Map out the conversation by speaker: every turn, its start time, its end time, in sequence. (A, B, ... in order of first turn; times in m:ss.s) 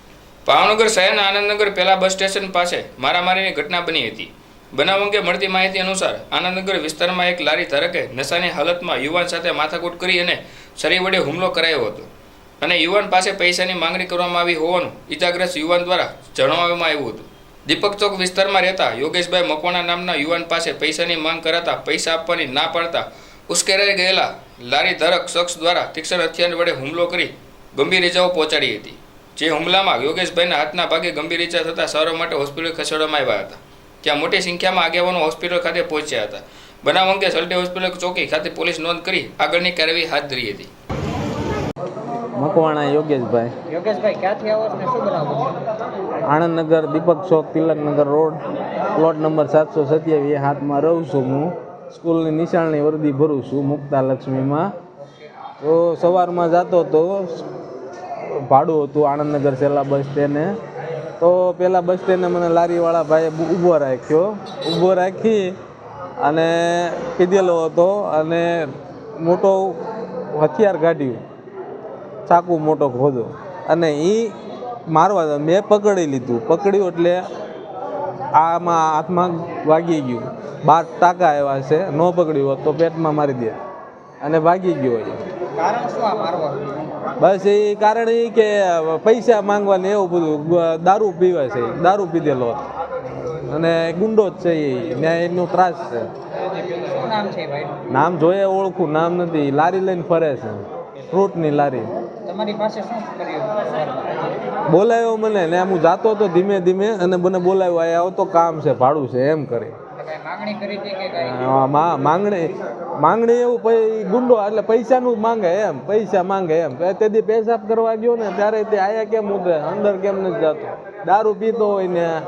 0:00.5-0:12.1 A
0:12.6-0:40.7 A
0:42.4-0:43.5 B
0:43.7-0:45.6 C
0:46.3-0:48.4 B
0:49.0-0:54.7 B
0:55.6-0:57.5 B
0:58.4-1:00.5 B
1:01.2-1:05.5 B
1:06.2-1:08.7 B
1:09.2-1:09.8 B
1:10.3-1:11.2 B
1:12.3-1:14.4 B
1:14.9-1:17.2 B
1:18.4-1:23.6 B
1:24.2-1:25.2 B
1:25.6-1:26.7 C
1:27.2-1:32.6 B
1:33.5-1:36.1 B
1:36.6-1:37.8 C
1:37.9-1:41.9 B
1:42.3-1:44.2 C
1:44.7-1:49.8 B
1:49.9-1:51.4 C
1:51.2-2:02.1 B